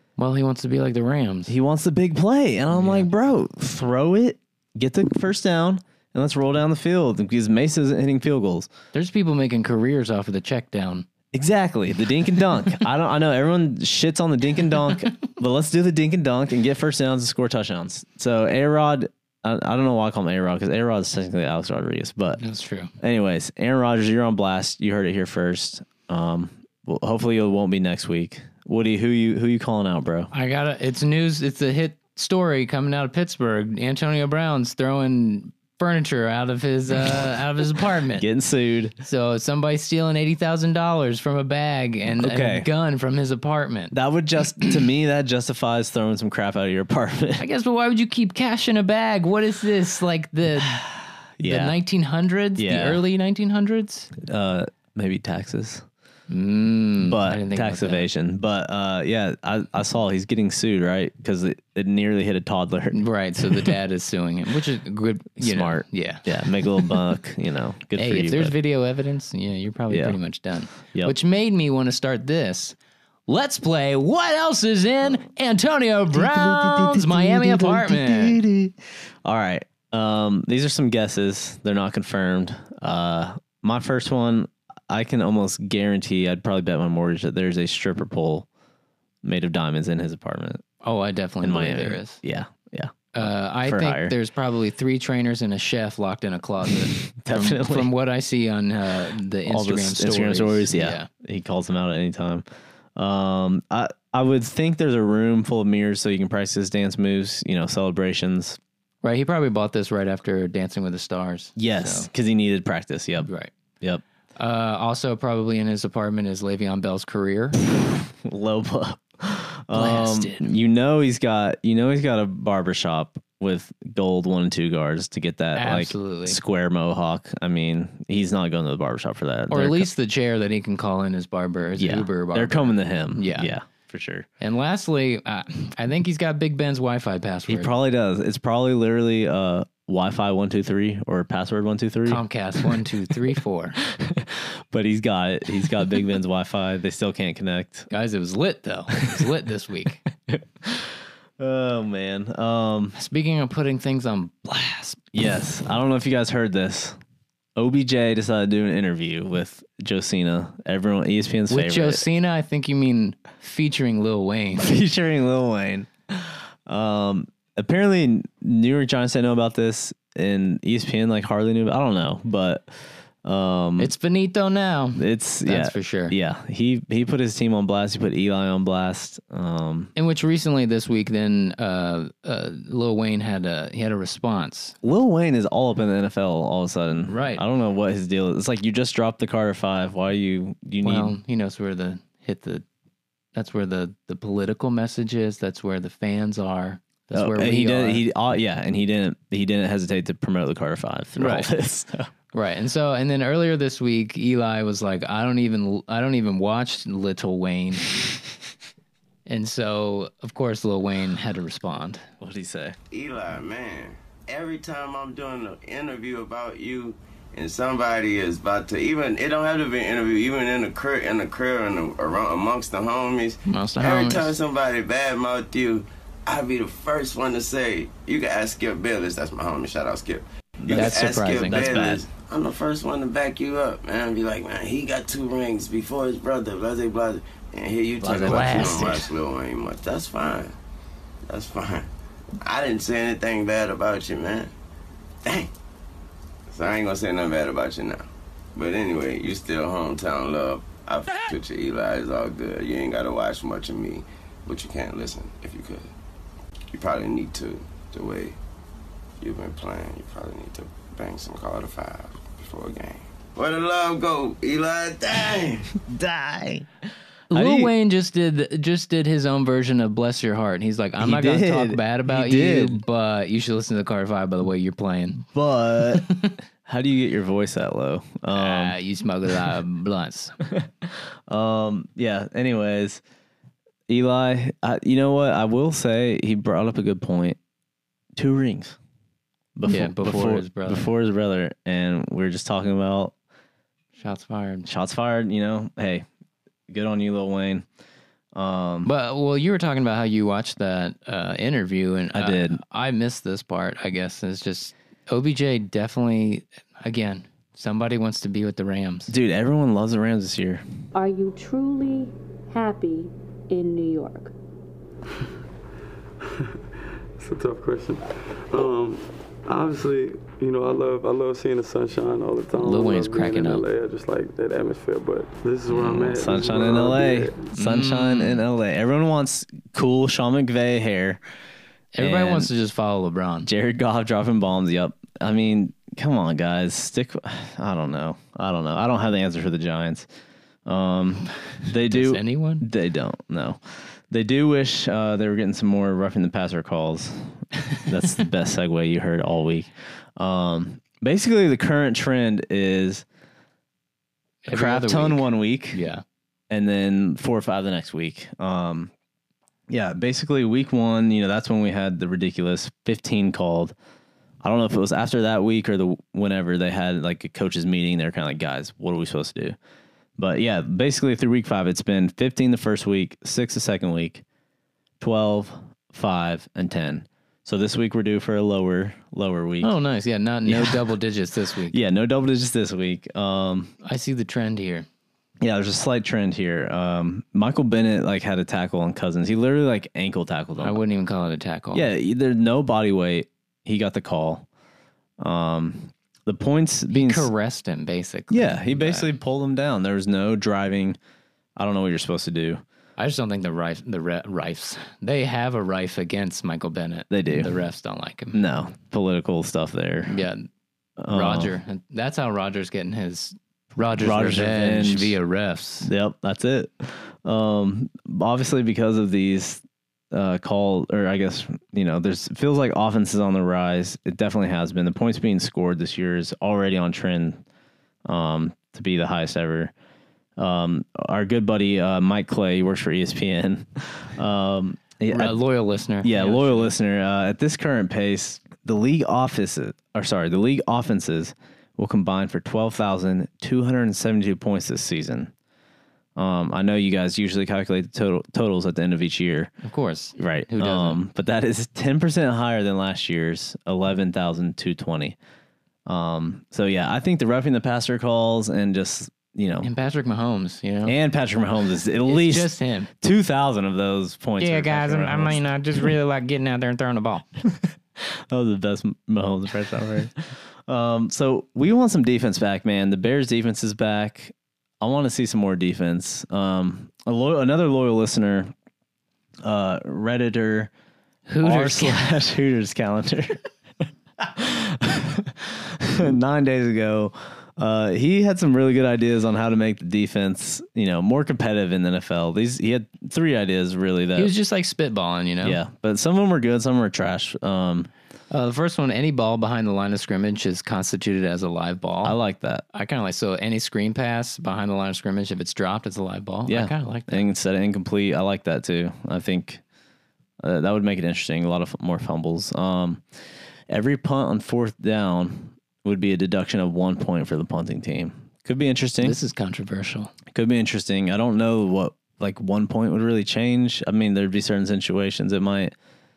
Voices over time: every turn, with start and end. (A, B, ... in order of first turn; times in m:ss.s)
0:00.2-0:01.5 A
0:01.5-0:08.7 B
0:02.7-0:03.1 A
0:08.9-0:11.0 A
0:11.3-0:22.4 B
0:22.4-0:22.9 A
0:23.0-0:30.3 B
0:30.3-0:38.2 A
0:38.2-0:39.0 B
0:39.0-0:43.9 A
0:42.2-0:42.7 B
0:43.9-0:47.4 B
0:47.4-0:50.8 A
0:50.6-0:51.8 B
0:51.4-0:54.1 A
0:52.6-0:53.0 B
0:54.2-0:55.8 B
0:56.3-0:58.0 A
0:57.0-1:03.7 B
1:02.9-1:06.3 A
1:05.4-1:08.6 B
1:08.0-1:12.8 A
1:09.9-1:10.2 B
1:13.3-1:18.4 A
1:16.1-1:28.5 B
1:29.2-1:30.6 B
1:30.8-1:32.2 A
1:31.4-1:34.2 B
1:33.1-1:41.1 A
1:36.8-1:37.9 B
1:39.5-1:48.6 B
1:49.0-1:52.1 A
1:51.6-1:53.3 B
1:53.2-1:53.5 A
1:54.4-1:57.5 A
1:58.2-2:09.9 B
1:59.7-2:00.4 A
2:05.6-2:06.4 A
2:09.5-2:13.5 A
2:11.8-2:14.3 B
2:14.4-2:17.7 A
2:17.5-2:22.2 B
2:22.0-2:23.8 A
2:23.8-2:27.9 B
2:27.9-2:30.0 A
2:30.3-2:32.9 B
2:32.9-2:35.0 A
2:35.1-2:37.0 B
2:37.6-2:42.0 B
2:41.5-2:44.7 A
2:44.6-2:52.7 B
2:53.2-2:53.9 B
2:53.8-2:56.1 A
2:55.0-2:59.9 B
3:00.0-3:04.7 A
3:04.8-3:11.2 B
3:07.1-3:07.4 A
3:10.8-3:12.6 A
3:13.3-3:18.0 A
3:17.1-3:22.1 B
3:21.2-3:21.5 A
3:22.3-3:27.9 A
3:29.2-3:32.0 A
3:32.2-3:32.8 B
3:32.9-4:00.5 C
3:43.5-3:44.3 A
3:50.6-3:52.0 B
3:50.7-3:51.7 A
3:58.0-3:59.1 A
3:58.0-3:58.7 B
4:01.3-4:01.9 C
4:02.4-4:04.5 C
4:05.2-4:05.5 C
4:06.5-4:15.9 C
4:16.7-4:18.4 C
4:19.2-4:25.7 C
4:25.8-4:26.7 B
4:27.3-4:27.7 B
4:27.3-4:35.2 A
4:31.0-4:32.8 B
4:35.3-4:36.1 B
4:36.0-4:36.3 A
4:36.6-4:38.8 B
4:38.3-4:40.3 A
4:40.5-4:43.0 B
4:43.9-4:47.4 B
4:48.1-4:48.8 B
4:49.5-4:53.1 B
4:49.7-4:50.9 A
4:54.0-4:54.7 A
4:54.6-4:56.0 B
4:56.7-4:57.6 B
4:58.3-4:58.9 B
4:58.8-5:09.1 A
5:02.1-5:02.6 B
5:09.1-5:10.6 B
5:10.9-5:14.3 D
5:16.2-5:16.5 E
5:17.2-5:27.5 E
5:22.6-5:23.6 A
5:25.7-5:31.2 B
5:27.5-5:28.4 A
5:31.9-5:33.5 A
5:32.0-5:32.5 B
5:33.4-5:40.1 B
5:40.6-5:53.0 B
5:41.8-5:42.6 A
5:54.4-5:56.0 A
5:54.5-5:55.8 B
5:56.5-5:58.9 B
5:59.7-6:03.7 B
6:04.4-6:09.6 B
6:10.2-6:14.2 B
6:15.0-6:19.7 B
6:19.6-6:21.8 A
6:20.4-6:20.9 B
6:21.7-6:23.7 B
6:23.8-6:24.9 A
6:25.4-6:30.8 B
6:30.6-6:31.9 A
6:31.7-6:34.5 B
6:35.2-6:37.3 B
6:36.9-6:39.1 A
6:38.3-6:41.0 B
6:41.6-6:42.6 B
6:43.0-6:48.4 A
6:47.1-6:47.6 B
6:48.3-6:50.2 B
6:50.1-6:50.5 A
6:51.0-6:51.5 B
6:51.1-6:55.9 A
6:54.0-6:55.2 B
6:55.8-7:07.4 B
7:08.0-7:09.7 B
7:10.4-7:15.4 B
7:15.1-7:16.7 A
7:16.0-7:25.3 B
7:26.2-7:29.5 B
7:29.6-7:31.0 A
7:30.2-7:35.2 B
7:35.8-7:39.7 B
7:39.6-7:41.0 A
7:40.8-7:45.9 B
7:42.0-7:42.9 A
7:44.4-7:47.2 A
7:47.5-7:58.5 B
7:59.4-8:00.7 B
8:01.3-8:02.0 A
8:01.4-8:03.4 B
8:04.2-8:14.3 B
8:14.2-8:15.6 A
8:15.4-8:17.9 B
8:18.3-8:22.2 A
8:22.0-8:22.6 B
8:22.7-8:27.2 A
8:26.5-8:29.6 B
8:30.4-8:33.0 B
8:33.7-8:39.2 B
8:39.0-8:40.1 A
8:40.3-8:45.7 B